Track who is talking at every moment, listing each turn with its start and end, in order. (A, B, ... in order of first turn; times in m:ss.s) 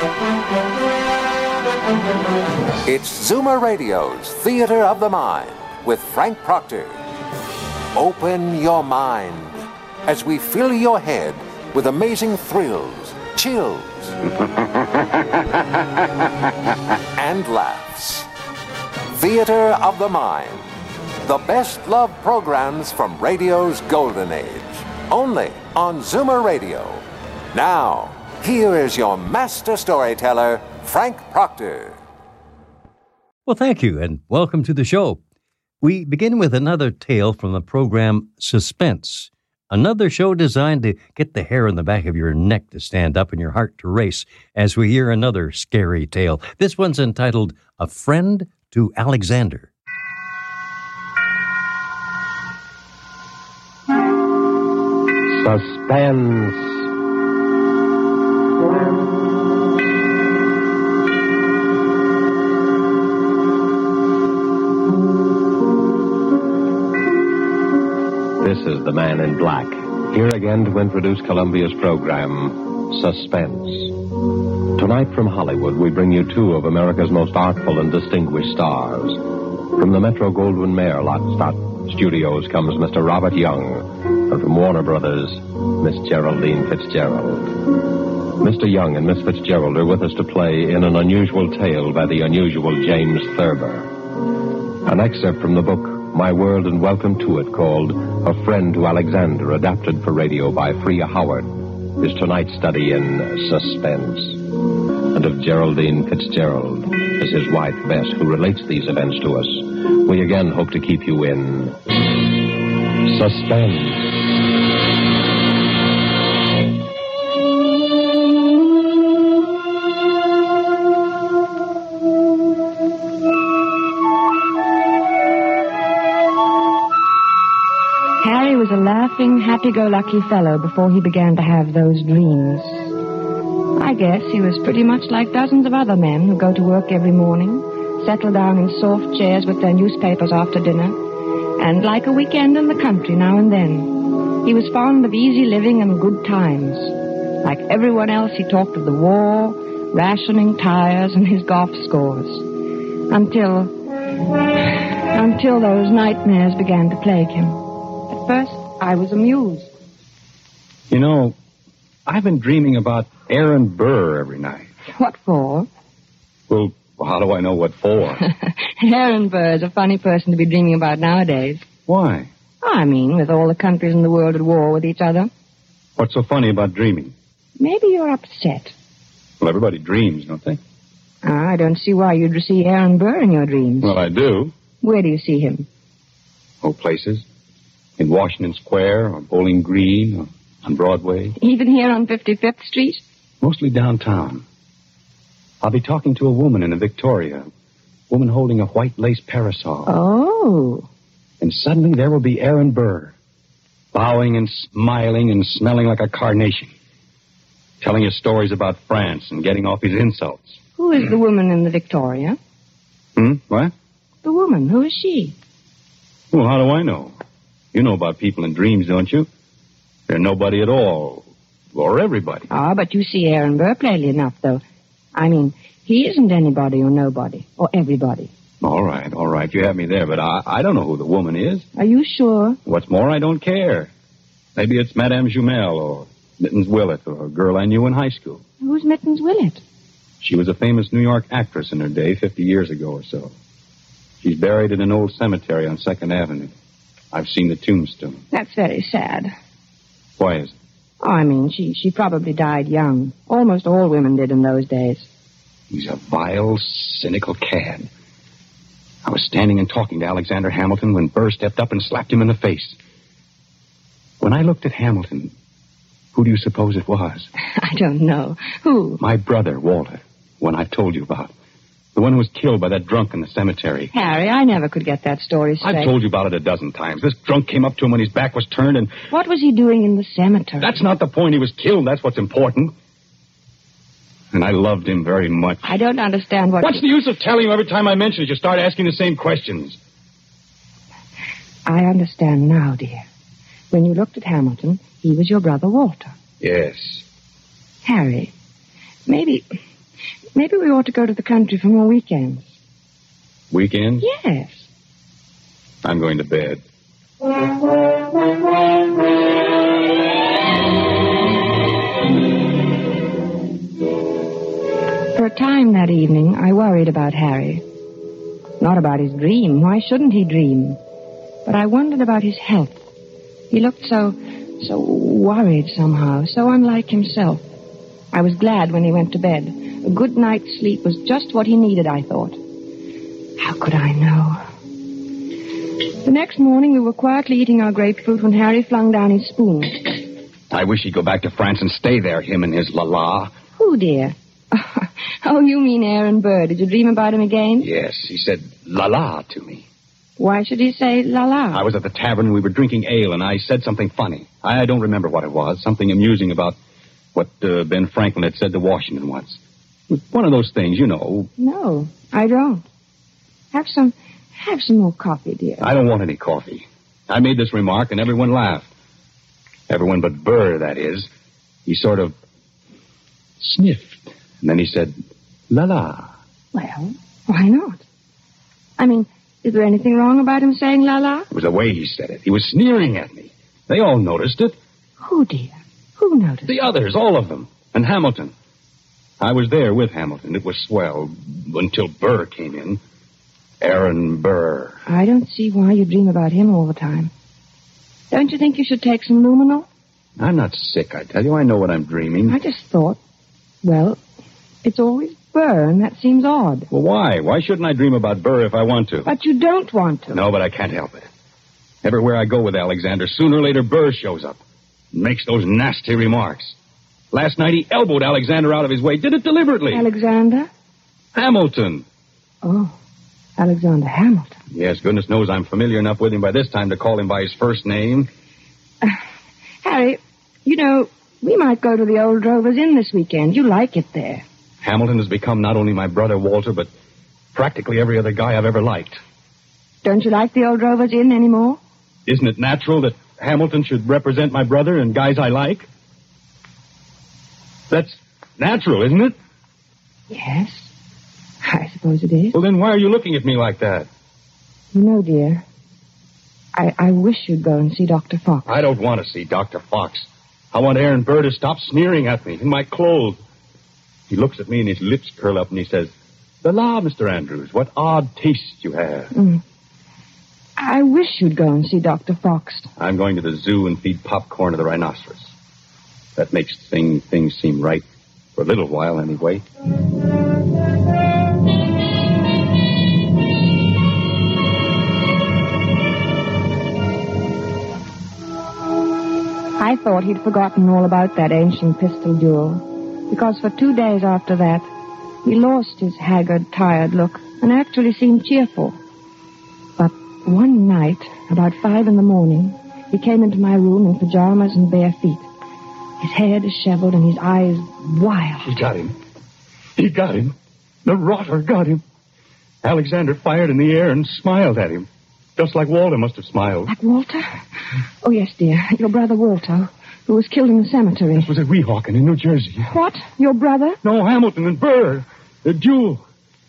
0:02.8-0:07.0 A
0:07.9-0:14.2 A
0:17.2-0:18.3 A
0:19.1-0:20.7 A
0:21.2-0:32.0 A
0:33.4-0:35.2 B
0:35.8-0:49.7 B
0:55.3-0:56.8 C
1:08.4-1:14.0 C
1:14.7-1:27.7 C
1:28.4-1:33.9 C
1:34.8-1:44.5 C
1:45.1-1:51.8 C
1:53.0-1:54.4 C
2:08.2-2:12.9 D
2:13.8-2:21.0 D
2:21.6-2:32.5 D
2:33.1-2:33.7 D
2:34.6-2:39.7 D
2:40.9-2:41.4 E
2:42.0-2:44.7 E
2:45.0-2:45.7 D
2:46.5-2:48.2 E
2:48.2-2:51.6 D
2:51.9-2:52.3 E
2:52.6-2:55.3 D
2:56.0-2:57.1 E
2:57.6-2:58.7 D
2:59.4-3:00.6 E
3:01.2-3:04.0 D
3:03.8-3:04.5 E
3:04.8-3:05.7 D
3:06.6-3:07.2 E
3:08.0-3:11.3 E
3:11.4-3:13.0 D
3:13.4-3:14.4 E
3:15.6-3:17.5 E
3:18.1-3:19.9 E
3:19.9-3:20.8 D
3:21.4-3:23.1 E
3:23.9-3:26.7 E
3:27.8-3:30.6 E
3:30.8-3:32.4 D
3:33.2-3:33.7 E
3:34.2-3:35.3 D
3:36.3-3:37.1 E
3:37.7-3:39.3 E
3:40.1-3:42.5 E
3:42.5-3:44.6 D
3:45.1-3:48.3 D
3:48.6-3:51.6 E
3:51.8-3:52.6 D
3:52.6-3:53.9 E
3:54.6-3:58.4 E
3:58.6-3:59.6 D
4:00.2-4:03.3 E
4:04.2-4:06.5 E
4:07.1-4:08.2 E
4:08.3-4:09.3 D
4:10.2-4:10.5 E
4:11.0-4:15.1 D
4:15.7-4:17.9 E
4:19.0-4:22.8 E
4:24.2-4:25.3 E
4:26.1-4:27.3 E
4:27.6-4:29.0 D
4:29.0-4:31.3 E
4:31.9-4:33.9 E
4:33.9-4:35.9 D
4:35.6-4:38.9 E
4:39.1-4:40.7 D
4:40.6-4:42.7 E
4:44.3-4:45.6 E
4:45.6-4:46.8 D
4:46.6-4:49.8 E
4:51.6-4:53.0 D
4:53.7-4:56.1 D
4:56.4-4:57.0 E
4:57.8-4:58.3 D
4:59.1-4:59.5 D
5:00.3-5:02.6 D
5:03.5-5:04.0 E
5:04.0-5:04.7 D
5:05.8-5:06.6 E
5:15.1-5:17.6 D
5:18.6-5:20.8 D
5:21.4-5:22.8 D
5:23.5-5:27.4 D
5:28.1-5:32.4 D
5:33.4-5:34.4 D
5:36.0-5:40.0 D
5:40.5-5:43.3 E
5:43.6-5:47.7 D
5:47.6-5:49.6 E
5:50.2-5:51.6 D
5:51.5-5:56.6 E
5:57.1-5:59.4 E
5:59.9-6:01.3 E
6:01.4-6:02.6 D
6:03.5-6:05.7 D
6:05.6-6:08.7 E
6:09.7-6:11.1 E
6:11.6-6:12.1 E
6:13.4-6:15.0 E
6:15.5-6:16.1 E
6:16.5-6:17.8 D
6:18.8-6:21.3 D
6:21.3-6:24.6 E
6:25.0-6:26.6 D
6:26.5-6:28.3 E
6:29.2-6:32.8 E
6:33.6-6:34.8 E
6:34.9-6:37.1 D
6:38.1-6:39.6 D
6:40.2-6:42.4 E
6:42.3-6:43.0 D
6:43.6-6:44.0 D
6:44.6-6:46.7 D
6:46.7-6:49.1 E
6:49.0-6:50.2 D
6:50.1-6:51.1 E
6:51.8-6:54.4 E
6:54.9-6:56.6 E
6:57.1-6:59.8 E
6:59.7-7:00.5 D
7:01.1-7:01.8 E
7:02.4-7:02.7 D
7:03.4-7:04.4 D
7:04.5-7:08.1 E
7:09.6-7:14.2 D
7:14.6-7:16.7 E
7:17.3-7:19.0 E
7:19.8-7:21.6 D
7:22.0-7:25.7 E
7:27.7-7:29.2 E
7:30.1-7:30.7 D
7:31.4-7:32.3 D
7:32.3-7:33.9 E
7:34.7-7:35.4 D
7:36.5-7:38.5 D
7:38.4-7:43.2 E
7:44.1-7:45.9 E
7:46.4-7:49.1 E
7:49.1-7:49.4 D
7:50.6-7:52.7 D
7:52.8-7:55.3 E
7:56.2-7:59.4 E
8:09.6-8:14.7 D
8:15.2-8:18.8 D
8:19.8-8:25.3 D
8:26.0-8:28.5 D
8:28.4-8:28.9 E
8:29.8-8:30.3 E
8:30.8-8:31.8 E
8:32.6-8:34.8 E
8:35.4-8:36.7 E
8:36.7-8:37.4 D
8:38.0-8:41.3 D
8:41.2-8:42.7 E
8:42.7-8:43.8 D
8:43.8-8:46.0 E